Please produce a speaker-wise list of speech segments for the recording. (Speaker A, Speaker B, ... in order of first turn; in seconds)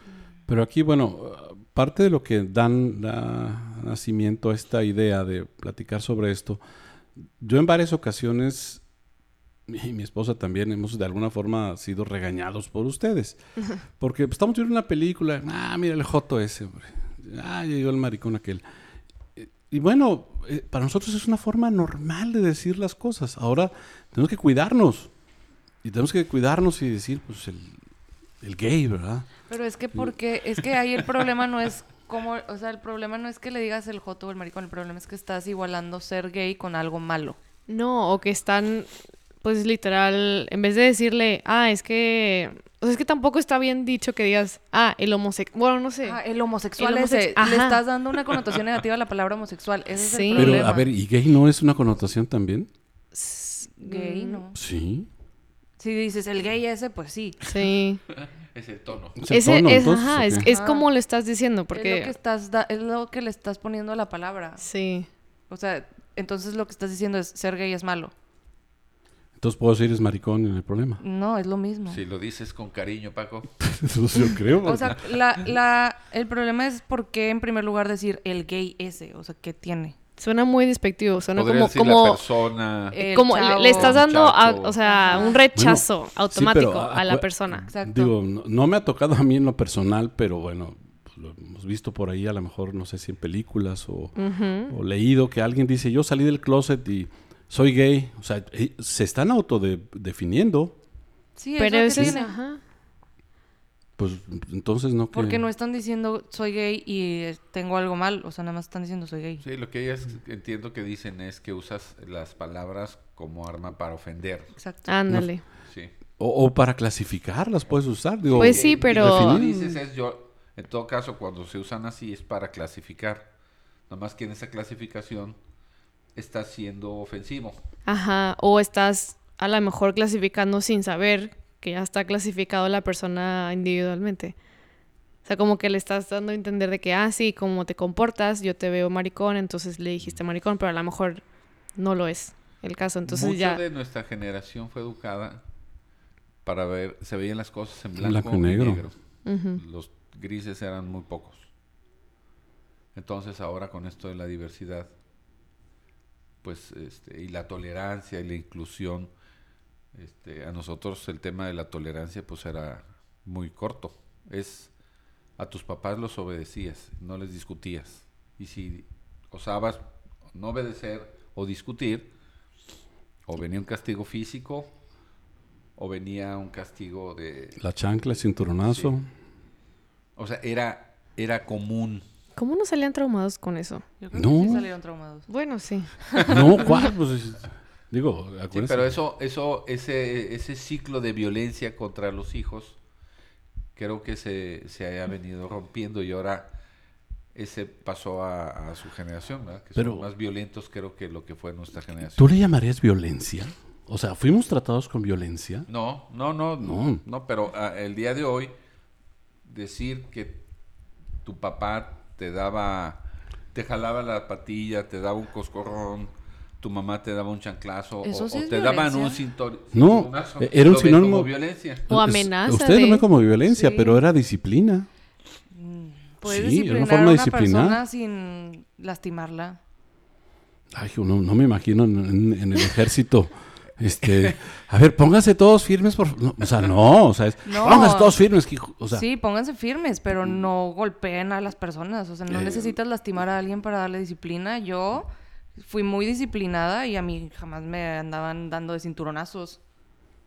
Speaker A: 0.5-6.6, 7.4-8.8, 9.7-13.4, 13.9-18.6, 19.4-25.1, 25.8-27.8, 28.4-29.3, 50.3-52.7, 54.5-55.1, 59.2-60.5, 69.4-71.0, 73.6-75.0, 85.5-94.2, 94.7-100.8, 104.0-105.4, 116.2-119.8, 148.0-148.9, 177.6-179.1, 184.1-184.7, 186.3-188.9, 199.8-200.1, 202.2-205.7, 206.6-207.0, 219.7-221.3, 221.9-224.9, 226.2-227.8, 230.7-239.0
Speaker B: 29.5-37.4, 46.0-50.9, 53.8-54.6, 55.8-57.4, 60.4-60.9, 61.7-64.6, 65.5-68.1, 71.0-72.0, 74.6-80.0, 82.9-84.0, 84.8-85.4, 87.7-88.1, 101.4-102.3, 105.1-109.4, 114.6-114.9, 184.0-185.3, 218.0-219.2, 223.5-224.0, 225.5-229.6, 237.4-238.2, 238.9-249.6
Speaker C: 37.7-46.2, 46.8-47.8, 50.0-50.6, 53.1-54.4, 57.5-58.0, 59.3-62.1, 64.6-65.1, 80.2-82.2, 83.0-87.7, 94.2-94.7, 101.6-102.6, 114.9-115.4, 118.4-119.4, 127.9-134.4, 135.2-143.6, 149.2-149.6, 182.4-183.9, 185.3-186.9, 221.9-223.1
Speaker D: 58.1-59.2, 71.9-73.7, 81.4-83.0, 83.7-85.2, 109.4-114.5, 118.2-123.3, 123.9-125.4, 126.2-127.6, 143.1-145.4, 146.4-151.5, 152.9-154.9, 156.4-159.1, 159.9-164.7, 165.4-172.1, 173.3-174.8, 175.8-177.6, 178.6-178.9, 180.2-182.0, 188.5-192.8, 193.8-196.5, 197.3-202.3, 205.7-208.6, 209.4-210.4, 211.2-213.0, 213.5-221.8